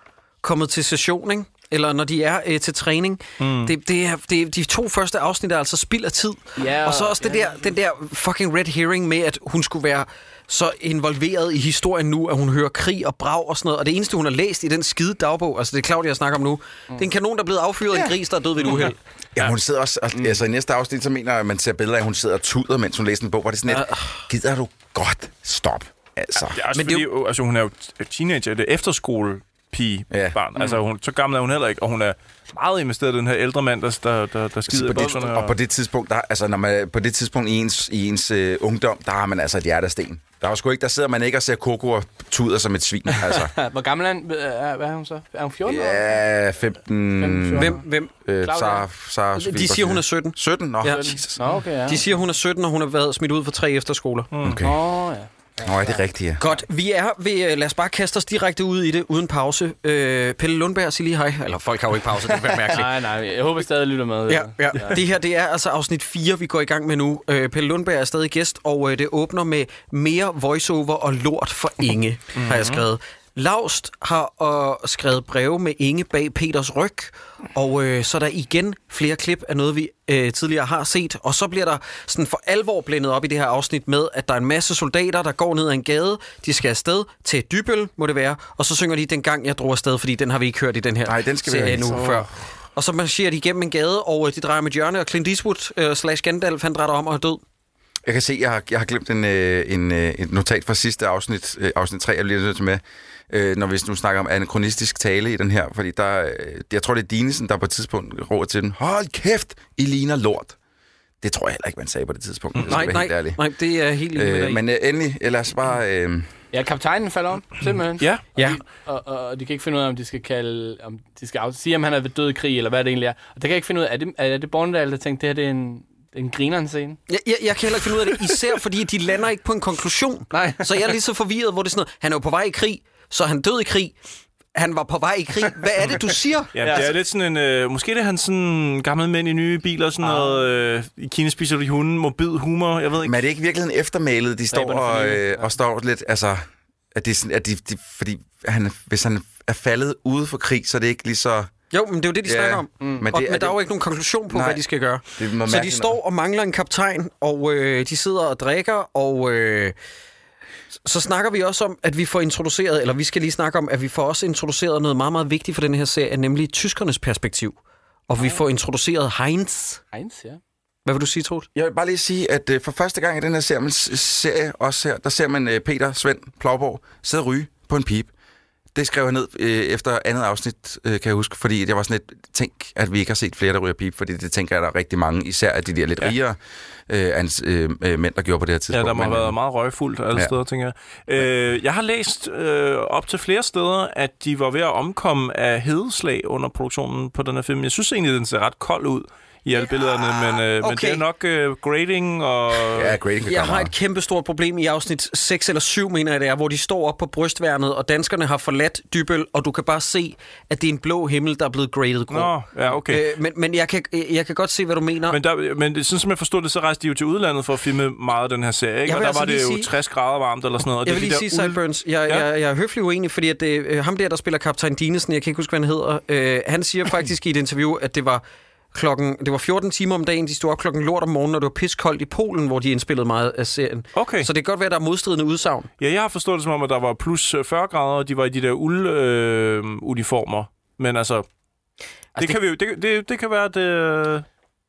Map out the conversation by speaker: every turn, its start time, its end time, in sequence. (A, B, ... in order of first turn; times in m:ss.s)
0:00.4-0:19.0 A
0:03.4-0:03.7 B
0:06.6-0:07.5 C
0:17.9-0:26.6 D
0:23.6-0:24.2 A
0:26.5-0:35.6 B
0:26.7-0:27.1 A
0:30.1-0:30.8 D
0:34.7-0:43.5 D
0:43.2-0:46.0 C
0:45.6-0:51.4 D
0:47.2-0:47.8 C
0:47.5-0:48.1 A
0:48.4-0:48.8 C
0:49.4-0:51.2 A
0:50.8-0:52.0 C
0:51.8-0:54.3 A
0:54.3-0:54.6 B
0:54.4-0:54.8 D
0:54.6-0:56.0 C
0:55.6-0:56.4 D
0:56.4-1:02.9 A
1:02.7-1:05.0 C
1:04.3-1:37.4 A
1:12.4-1:12.8 B
1:31.0-1:32.2 D
1:31.9-1:32.2 B
1:38.0-1:50.6 D
1:51.2-1:53.4 D
1:52.5-1:52.9 B
1:52.6-1:54.6 A
1:54.1-1:56.3 D
1:56.5-2:07.0 C
1:58.0-1:58.2 B
1:58.4-1:58.6 A
2:07.1-2:14.0 A
2:10.3-2:10.7 C
2:14.5-2:16.8 A
2:16.5-2:23.2 B
2:16.6-2:16.9 C
2:20.0-2:20.4 C
2:23.0-2:31.5 D
2:24.5-2:25.5 C
2:31.7-2:39.8 A
2:32.2-2:33.6 D
2:32.8-2:33.1 C
2:34.3-2:34.6 D
2:35.2-2:35.9 D
2:40.8-2:47.6 A
2:48.1-2:49.8 A
2:49.9-2:50.4 C
2:50.8-2:51.5 A
2:51.5-2:58.1 D
2:58.7-3:09.4 D
3:08.7-3:23.0 B
3:19.6-3:21.0 A
3:22.7-3:23.7 D
3:23.2-3:35.2 A
3:32.1-3:33.1 B
3:35.1-3:42.3 B
3:38.8-3:39.7 A
3:40.8-3:48.2 A
3:48.7-3:55.7 A
3:54.0-3:54.3 B
3:55.8-4:01.2 B
4:02.1-4:02.4 A
4:02.2-4:04.2 B